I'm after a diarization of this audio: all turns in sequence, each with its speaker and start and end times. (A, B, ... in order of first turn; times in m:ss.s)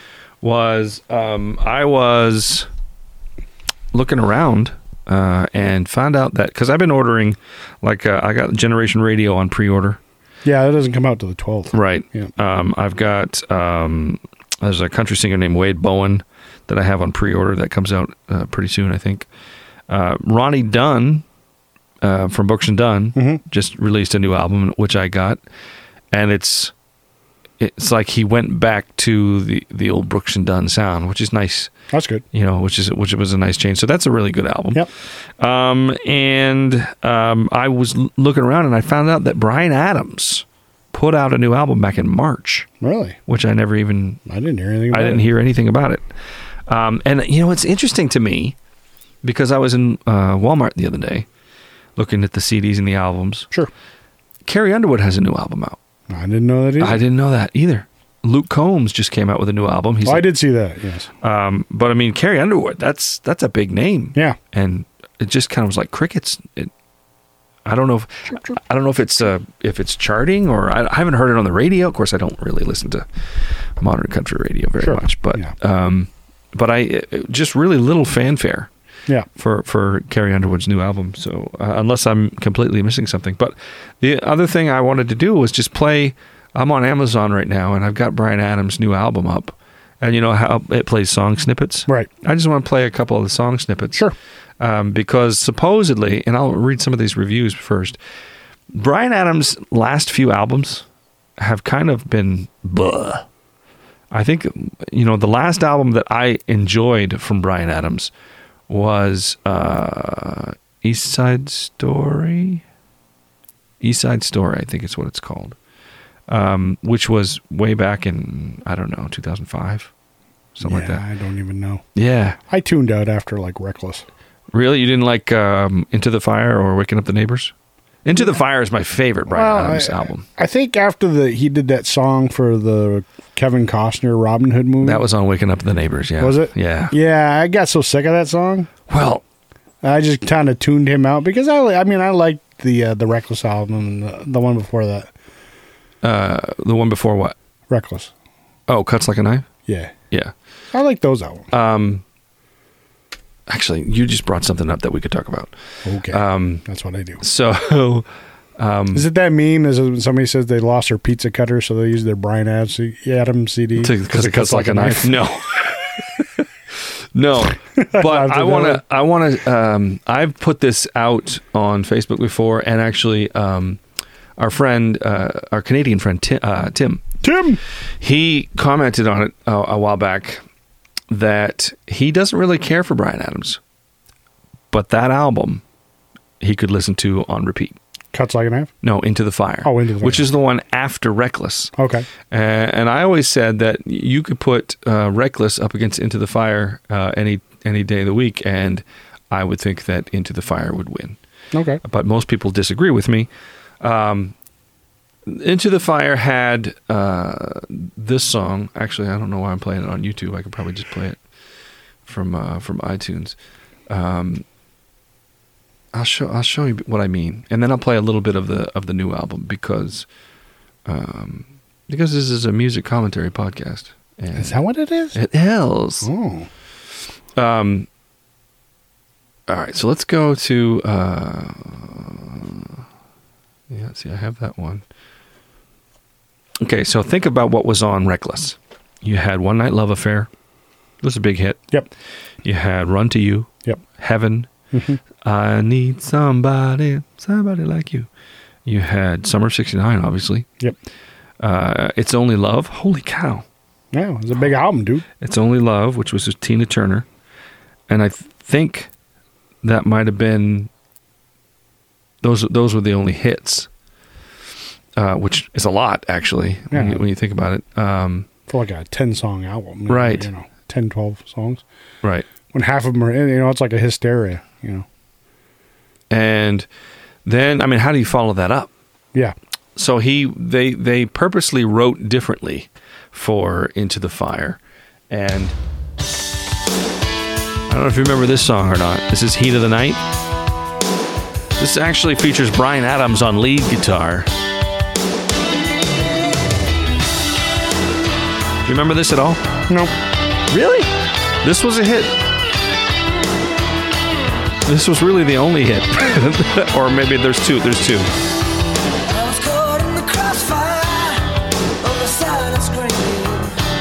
0:00.4-0:02.7 A
0:03.9-0:10.0 A
0:10.4-0:12.3 B
0:11.7-0:19.3 A
0:19.9-0:21.2 A
0:22.0-0:25.4 A
0:23.2-0:23.4 B
0:26.1-0:26.7 A
0:27.6-0:31.7 A
0:31.9-0:32.2 B
0:32.3-0:34.9 A
0:35.4-0:42.7 A
0:42.8-0:43.2 B
0:43.3-0:44.2 A
0:44.3-0:45.2 B
0:44.9-0:46.1 A
0:46.7-0:48.6 A
0:49.2-0:51.3 A
0:52.0-0:53.5 A
0:54.4-0:55.8 A
0:56.1-0:57.0 B
0:56.8-1:00.3 A
1:00.0-1:01.1 B
1:01.2-1:06.7 A
1:07.7-1:13.1 A
1:13.8-1:18.7 A
1:14.8-1:15.5 B
1:19.4-1:34.1 A
1:34.6-1:38.0 A
1:38.7-1:40.8 A
1:41.4-1:43.3 A
1:44.1-1:48.1 A
1:48.7-1:52.6 A
1:53.8-1:55.6 A
1:56.3-1:59.9 A
2:00.6-2:01.0 A
2:00.6-2:01.8 B
2:02.0-2:02.4 A
2:02.4-2:04.0 B
2:04.5-2:07.5 A
2:08.0-2:10.2 A
2:09.3-2:15.0 B
2:14.8-2:16.9 A
2:16.2-2:18.7 B
2:18.9-2:19.2 A
2:19.8-2:25.1 B
2:26.0-2:27.4 A
2:27.7-2:28.1 B
2:28.7-2:29.5 A
2:29.7-2:29.9 B
2:30.7-2:31.5 B
2:31.5-2:32.0 A
2:33.5-2:35.5 A
2:35.8-2:37.2 B
2:36.1-2:36.6 A
2:37.2-2:38.1 A
2:38.6-2:39.1 A
2:38.9-2:45.2 B
2:43.8-2:46.4 A
2:47.1-2:53.8 A
2:47.8-2:48.8 B
2:54.4-2:57.1 A
2:57.2-2:57.6 B
2:58.0-3:00.4 A
3:01.1-3:03.6 A
3:04.7-3:05.6 A
3:06.4-3:07.8 A
3:08.1-3:08.7 B
3:08.8-3:11.7 A
3:09.6-3:10.2 B
3:11.8-3:12.1 B
3:12.3-3:21.2 A
3:21.5-3:21.8 B
3:21.8-3:23.3 A
3:23.8-3:24.3 A
3:25.3-3:31.2 A
3:32.1-3:33.4 A
3:33.9-3:34.4 A
3:35.9-3:40.1 A
3:40.9-3:44.6 A
3:44.4-3:45.2 B
3:45.1-3:46.1 A
3:46.0-3:46.5 B
3:47.4-3:47.9 A
3:49.5-3:52.8 A
3:53.7-3:54.8 A
3:56.6-4:00.3 A
4:01.0-4:01.6 A
4:02.4-4:04.5 A
4:04.7-4:05.0 B
4:05.2-4:08.1 A
4:08.7-4:10.5 A
4:11.4-4:13.4 A
4:13.9-4:15.1 B
4:15.2-4:17.1 A
4:17.9-4:18.9 A
4:19.6-4:20.7 A
4:22.2-4:23.7 A
4:25.0-4:28.3 A
4:26.7-4:27.0 B
4:28.5-4:31.6 B
4:29.9-4:30.3 A
4:32.5-4:34.9 B
4:36.1-4:36.7 A
4:37.2-4:38.7 A
4:39.8-4:44.6 A
4:45.1-4:45.6 A
4:47.7-4:50.0 A
4:51.6-4:54.3 A
4:58.6-4:59.4 A
4:59.7-4:59.9 B
5:00.5-5:00.9 A
5:01.4-5:02.1 A
5:04.7-5:08.1 A
5:09.1-5:11.3 C
5:11.8-5:13.6 C